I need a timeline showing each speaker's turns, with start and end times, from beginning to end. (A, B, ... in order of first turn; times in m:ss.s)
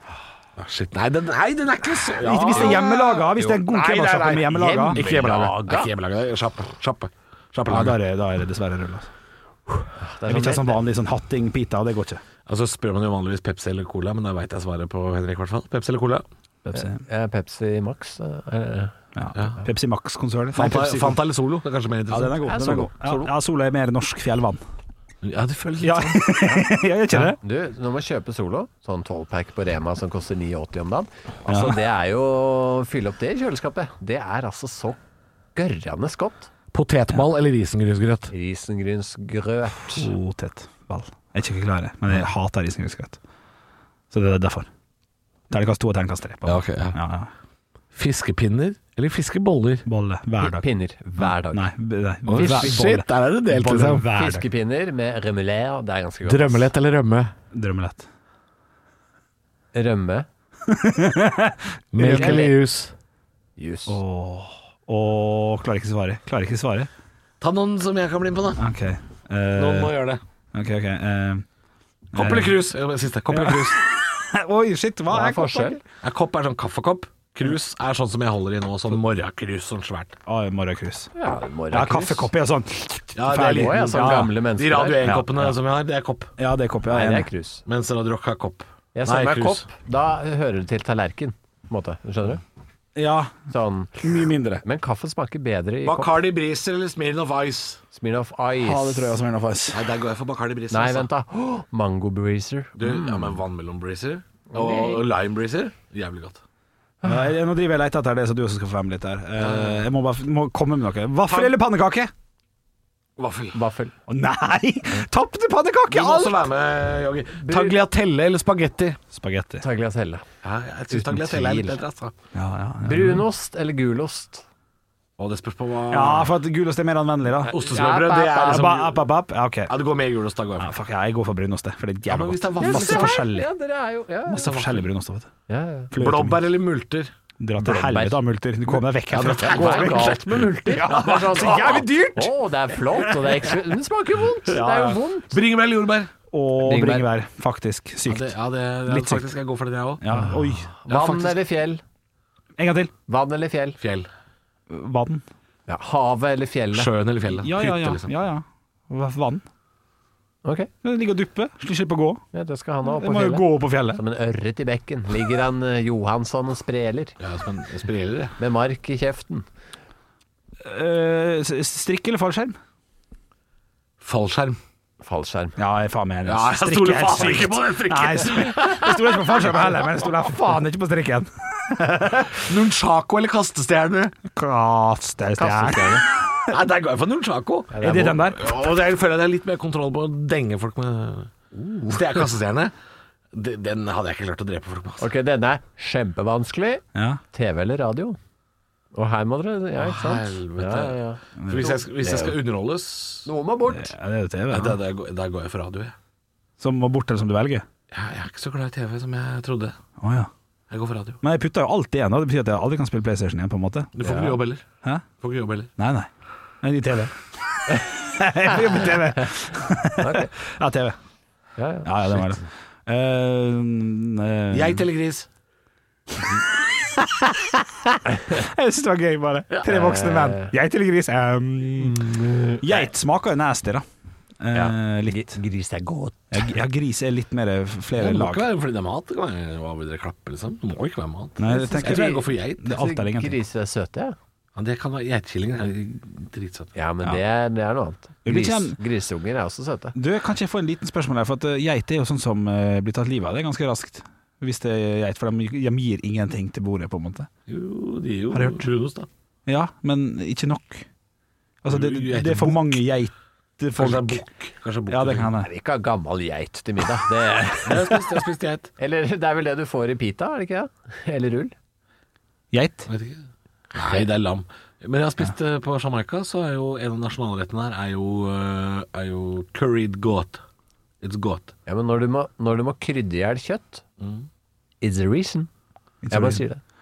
0:00.6-0:08.0 A
0:02.2-0:05.3 B
0:02.6-0:02.8 C
0:04.5-0:05.9 C
0:07.7-0:09.1 B
0:10.0-0:10.8 C
0:10.3-0:12.2 B
0:12.5-0:16.2 A
0:16.7-0:17.0 B
0:16.7-0:18.9 C
0:19.2-0:21.2 B
0:20.5-0:22.9 A
0:22.1-0:24.6 B
0:22.5-0:23.3 C
0:25.2-0:26.5 A
0:25.8-0:27.4 B
0:27.4-0:35.0 C
0:31.5-0:31.8 B
0:35.6-0:36.5 C
0:36.7-0:38.3 A
0:38.3-0:40.1 C
0:39.9-0:43.2 B
0:44.1-0:44.7 B
0:45.5-0:47.3 B
0:46.5-0:47.0 A
0:47.9-0:49.9 A
0:49.9-0:50.7 B
0:50.4-0:51.7 C
0:51.2-0:54.4 B
0:52.3-0:54.1 A
0:52.4-0:52.8 C
0:53.9-0:56.7 C
0:56.2-0:57.3 A
0:57.5-0:58.1 B
0:59.7-1:00.3 C
1:00.7-1:02.5 B
1:01.9-1:02.9 A
1:02.0-1:02.5 C
1:03.6-1:04.0 C
1:03.9-1:06.9 B
1:07.4-1:08.7 A
1:08.6-1:10.0 B
1:09.6-1:10.2 A
1:10.5-1:11.4 B
1:12.1-1:12.6 B
1:12.1-1:13.8 A
1:13.3-1:15.8 B
1:15.1-1:15.8 C
1:16.0-1:20.2 A
1:20.3-1:21.1 B
1:21.2-1:22.3 C
1:21.7-1:24.3 B
1:23.2-1:26.3 A
1:23.5-1:25.2 C
1:25.0-1:25.5 B
1:26.4-1:27.3 B
1:26.9-1:27.6 C
1:27.7-1:29.6 A
1:29.0-1:32.4 C
1:33.0-1:33.3 B
1:33.5-1:34.0 C
1:34.0-1:34.6 B
1:34.6-1:36.2 C
1:35.8-1:37.8 A
1:37.9-1:39.2 C
1:38.6-1:39.8 B
1:39.7-1:41.1 A
1:40.7-1:43.4 C
1:42.8-1:46.4 A
1:44.5-1:45.0 C
1:47.0-1:47.3 C
1:47.0-1:52.1 B
1:49.4-1:49.9 A
1:53.2-1:53.6 A
1:53.5-1:54.0 C
1:54.1-1:56.4 B
1:55.9-1:59.0 A
1:57.4-1:57.8 C
1:59.1-1:59.6 B
1:59.6-2:00.2 C
2:00.4-2:02.2 A
2:00.9-2:01.8 C
2:02.3-2:03.2 B
2:02.8-2:04.4 C
2:05.2-2:06.4 A
2:05.9-2:07.6 B
2:07.5-2:09.1 A
2:07.6-2:08.6 C
2:08.4-2:09.7 B
2:09.7-2:10.7 A
2:10.6-2:13.5 B
2:12.1-2:13.2 A
2:12.6-2:14.5 C
2:14.3-2:15.3 B
2:14.3-2:14.9 A
2:15.5-2:15.9 C
2:15.9-2:16.4 B
2:16.0-2:17.1 A
2:17.4-2:23.5 B
2:17.6-2:18.2 C
2:19.1-2:21.8 A
2:19.2-2:25.4 C
2:24.5-2:26.1 A
2:26.3-2:28.4 B
2:26.6-2:27.1 C
2:28.1-2:30.2 A
2:28.9-2:29.3 B
2:30.0-2:30.7 B
2:30.2-2:31.8 C
2:30.9-2:31.4 A
2:32.6-2:32.9 B
2:33.1-2:33.8 C
2:33.8-2:34.1 A
2:34.7-2:35.2 B
2:35.7-2:36.9 C
2:36.7-2:38.1 A
2:37.4-2:39.4 B
2:40.4-2:40.7 C
2:40.8-2:42.2 B
2:42.3-2:47.2 C
2:42.9-2:44.0 B
2:47.2-2:48.4 A
2:48.4-2:49.4 C
2:50.6-2:52.6 B
2:54.0-2:54.6 A
2:55.0-2:55.6 C
2:55.6-3:02.4 B
2:56.3-2:59.6 A
3:02.4-3:04.2 A
3:04.3-3:06.5 B
3:05.4-3:06.1 C
3:06.5-3:11.3 A
3:07.7-3:08.2 C
3:07.8-3:08.4 B
3:11.6-3:12.1 C
3:11.9-3:12.7 A
3:13.3-3:15.1 A
3:15.0-3:18.2 C
3:17.0-3:17.2 B
3:18.9-3:22.4 C
3:19.8-3:23.3 A
3:21.4-3:21.7 B
3:23.2-3:24.0 C
3:23.7-3:24.8 B
3:24.5-3:26.0 A
3:26.6-3:27.6 B
3:27.9-3:29.8 A
3:30.0-3:30.3 B
3:30.7-3:31.2 A
3:31.2-3:33.9 B
3:34.0-3:34.6 A
3:34.0-3:34.4 C
3:35.2-3:35.7 A
3:35.8-3:36.1 B
3:36.6-3:37.1 B
3:37.7-3:41.0 B
3:40.0-3:40.3 C
3:41.6-3:42.4 C
3:41.8-3:44.8 B
3:44.5-3:45.3 A
3:48.2-3:53.8 B
3:49.6-3:50.5 C
3:51.8-3:52.6 C
3:54.4-3:55.4 B
3:54.5-3:56.5 C
3:56.3-3:58.4 B
3:58.0-4:02.6 A
4:01.4-4:03.4 B
4:01.5-4:04.2 C
4:04.6-4:06.7 A
4:06.8-4:10.0 C
4:08.2-4:08.8 B
4:10.0-4:17.3 B
4:17.5-4:19.1 A
4:18.3-4:18.7 B
4:19.5-4:20.9 B
4:21.6-4:24.2 B
4:21.7-4:22.8 A
4:23.8-4:25.3 A
4:24.9-4:25.5 B
4:25.4-4:28.2 C
4:27.6-4:28.7 A
4:28.8-4:31.5 C
4:32.5-4:32.9 B
4:32.9-4:40.4 A
4:41.0-4:41.5 A
4:41.7-4:43.8 C
4:44.0-4:44.3 A
4:44.8-4:45.5 C
4:46.0-4:46.4 B
4:46.1-4:46.6 C